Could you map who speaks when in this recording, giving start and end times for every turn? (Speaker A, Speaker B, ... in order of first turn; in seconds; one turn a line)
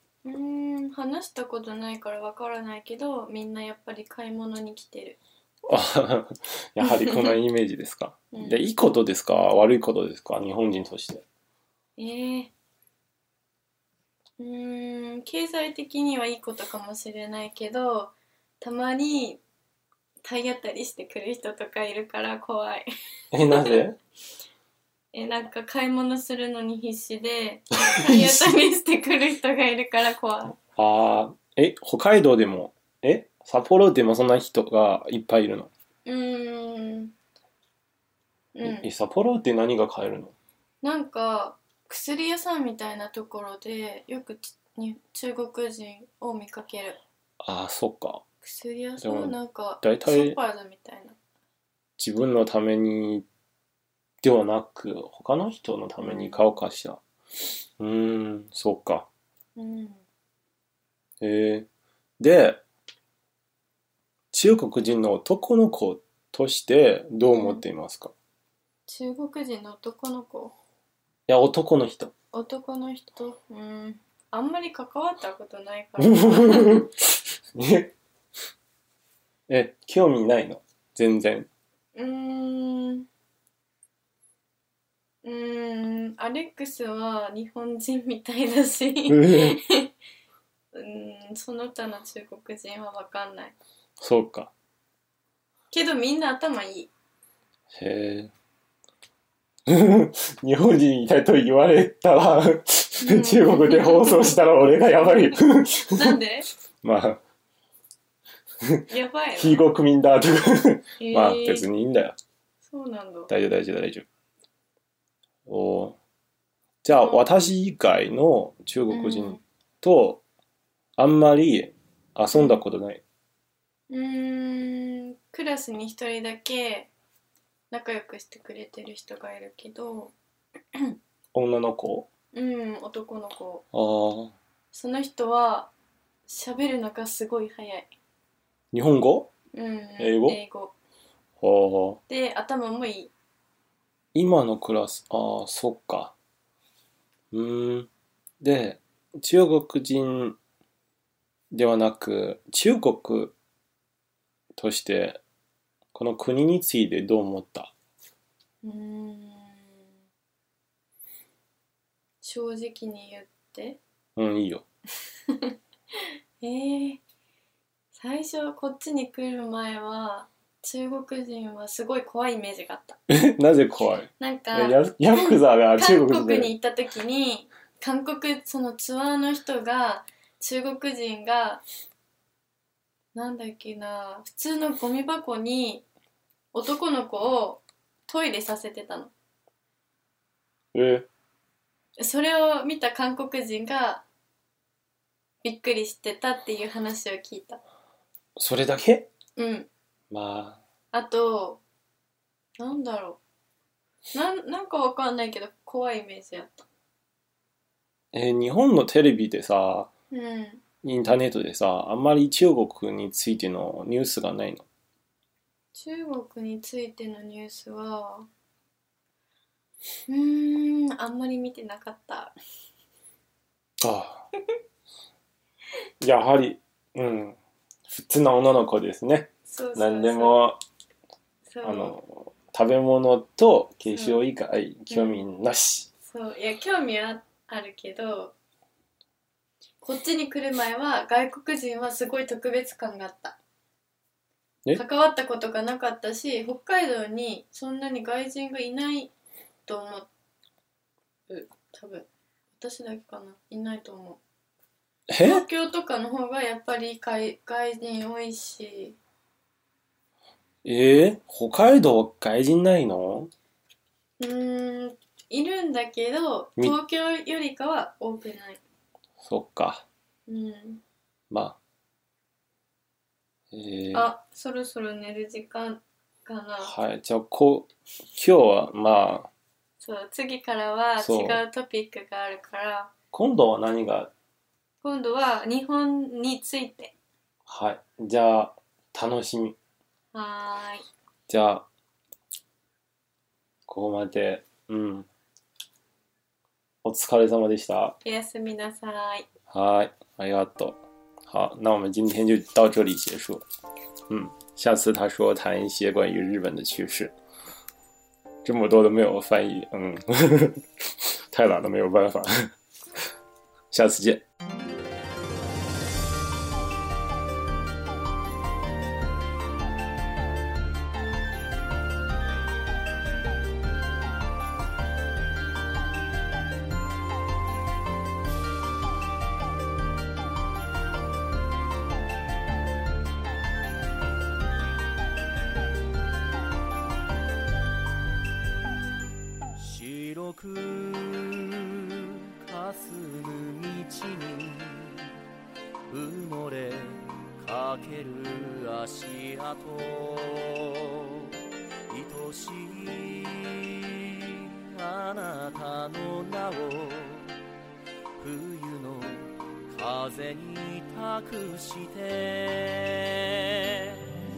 Speaker A: 0.2-5.2
Speaker B: 5.7-11.2
Speaker A: 6.8-7.3
Speaker A: 8.3-8.6
Speaker A: 12.0-12.5
Speaker A: 14.4-19.4
Speaker A: 20.2-22.9
Speaker B: 23.3-24.0
Speaker A: 23.4-23.8
Speaker A: 25.1-30.6
Speaker B: 27.8-28.5
Speaker B: 30.8-35.7
Speaker A: 36.0-37.1
Speaker A: 38.5-38.9
Speaker B: 38.6-40.3
Speaker A: 40.8-47.0
Speaker B: 47.4-48.2
Speaker A: 48.4-51.1
Speaker B: 49.0-50.4
Speaker B: 52.0-53.2
Speaker B: 54.2-57.0
Speaker A: 56.0-56.4
Speaker B: 57.8-59.1
Speaker A: 59.5-60.0
Speaker B: 61.2-61.7
Speaker B: 62.2-62.6
Speaker B: 64.3-68.1
Speaker A: 67.3-67.6
Speaker A: 68.9-70.5
Speaker B: 71.3-72.1
Speaker A: 72.3-76.8
Speaker B: 76.0-77.9
Speaker B: 79.5-81.5
Speaker A: 81.9-83.0
Speaker A: 85.2-89.9
Speaker B: 89.1-89.6
Speaker A: 90.7-93.5
Speaker B: 94.0-94.5
Speaker A: 95.7-96.9
Speaker B: 97.7-98.3
Speaker B: 99.7-106.2
Speaker A: 103.0-104.4
Speaker A: 105.9-106.5
Speaker B: 106.8-107.2
Speaker B: 108.7-112.1
Speaker A: 108.9-109.7
Speaker A: 111.0-111.7
Speaker A: 112.6-113.3
Speaker B: 113.3-114.0
Speaker B: 115.5-116.0
Speaker B: 116.8-120.2
Speaker A: 116.9-117.4
Speaker A: 118.9-119.4
Speaker B: 121.0-123.0
Speaker A: 122.3-122.6
Speaker A: 123.9-126.9
Speaker A: 127.7-130.1
Speaker B: 131.3-132.1
Speaker A: 132.3-133.6
Speaker B: 133.7-134.3
Speaker A: 134.7-135.7
Speaker A: 136.3-137.9
Speaker B: 138.7-139.3
Speaker A: 139.5-140.7
Speaker B: 140.0-140.4
Speaker B: 141.4-142.0
Speaker A: 142.1-143.1
Speaker B: 144.1-146.1
Speaker B: 147.3-147.9
Speaker B: 148.4-150.3
Speaker B: 151.5-153.3
Speaker B: 154.6-155.2
Speaker B: 155.9-157.7
Speaker A: 158.6-159.8
Speaker A: 162.2-163.8
Speaker B: 164.2-164.6
Speaker A: 165.3-165.5
Speaker A: 166.4-167.0
Speaker A: 167.9-173.0
Speaker B: 173.1-176.5
Speaker A: 174.2-181.6
Speaker A: 183.1-185.8
Speaker A: 186.5-189.1
Speaker B: 190.7-191.1
Speaker A: 192.0-194.0
Speaker A: 195.4-197.6
Speaker B: 198.4-199.1
Speaker A: 199.3-199.7
Speaker B: 200.1-200.6
Speaker A: 200.9-201.6
Speaker A: 202.6-203.2
Speaker A: 204.1-206.6
Speaker B: 208.1-209.9
Speaker A: 210.1-210.6
Speaker B: 210.8-214.6
Speaker A: 215.7-218.3
Speaker A: 220.1-222.3
Speaker B: 223.8-224.2
Speaker B: 226.0-230.6
Speaker A: 229.5-230.5
Speaker A: 231.4-232.0
Speaker B: 231.6-235.9
Speaker A: 233.9-234.2
Speaker A: 234.9-235.2
Speaker A: 236.0-238.3
Speaker A: 239.8-243.4
Speaker A: 244.7-249.1
Speaker A: 249.7-250.1
Speaker A: 251.3-254.2
Speaker B: 255.1-255.4
Speaker A: 255.2-259.0
Speaker B: 260.6-263.3
Speaker A: 264.2-268.6
Speaker B: 269.2-269.9
Speaker A: 270.3-270.8
Speaker B: 271.3-271.6
Speaker B: 273.5-274.1
Speaker A: 273.9-276.7
Speaker B: 276.6-279.3
Speaker A: 279.8-282.9
Speaker B: 281.0-281.4
Speaker B: 283.1-284.1
Speaker A: 284.8-286.9
Speaker B: 287.5-289.6
Speaker A: 290.1-290.9
Speaker B: 291.3-291.6
Speaker B: 293.7-295.1
Speaker B: 296.8-297.9
Speaker A: 298.0-299.3
Speaker B: 299.5-303.4
Speaker B: 304.1-307.1
Speaker B: 308.4-312.5
Speaker B: 313.7-314.2
Speaker C: 339.6-345.1
Speaker C: 345.9-351.3
Speaker C: 351.9-357.3
Speaker C: 358.2-364.1